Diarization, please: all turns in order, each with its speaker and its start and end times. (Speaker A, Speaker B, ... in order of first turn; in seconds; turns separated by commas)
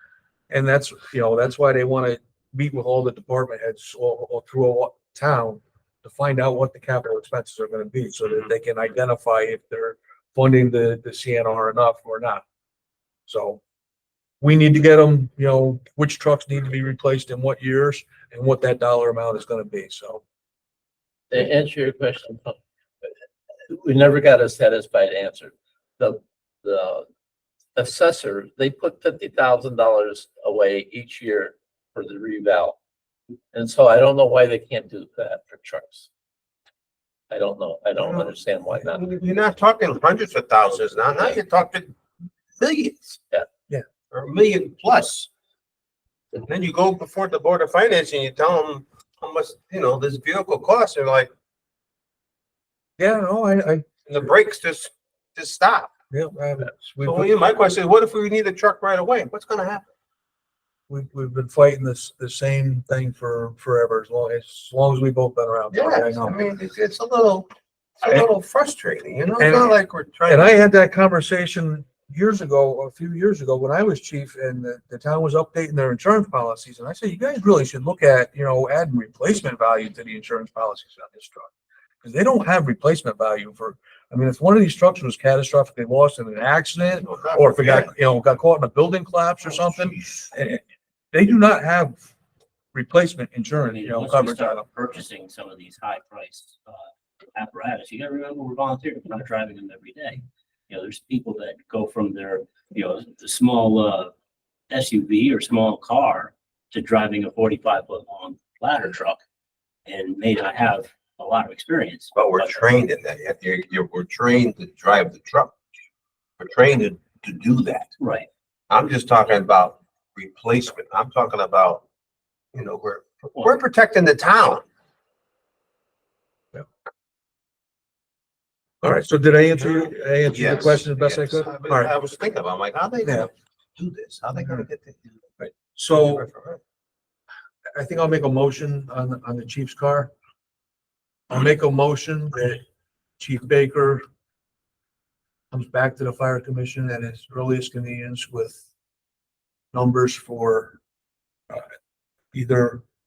Speaker A: 0.5-12.4, Speaker A: 13.3-13.6, Speaker A: 14.4-20.2, Speaker B: 21.3-23.1, Speaker B: 23.7-27.1, Speaker B: 27.8-32.8, Speaker B: 33.5-36.1, Speaker B: 37.3-39.0, Speaker C: 38.8-41.9, Speaker C: 42.6-43.2, Speaker C: 44.1-45.3, Speaker C: 46.3-51.3, Speaker A: 53.0-54.0, Speaker C: 54.0-55.9, Speaker A: 56.1-57.4, Speaker C: 57.0-59.9, Speaker A: 60.9-66.4, Speaker C: 65.7-70.5, Speaker A: 69.4-69.8, Speaker A: 70.3-90.6, Speaker C: 87.0-87.9, Speaker C: 89.4-90.3, Speaker A: 91.1-92.0, Speaker A: 92.7-94.7, Speaker D: 93.7-104.1, Speaker D: 104.7-109.2, Speaker D: 109.8-112.6, Speaker C: 112.1-115.5, Speaker C: 116.4-117.9, Speaker D: 118.0-118.3, Speaker C: 118.7-121.8, Speaker C: 122.5-124.6, Speaker A: 128.8-131.9, Speaker C: 130.3-135.2, Speaker A: 133.0-133.3, Speaker A: 135.4-136.2, Speaker C: 135.9-136.6, Speaker A: 137.7-140.1, Speaker A: 141.3-142.6, Speaker A: 143.2-144.0, Speaker A: 145.5-148.6, Speaker A: 149.7-150.8, Speaker A: 152.3-152.8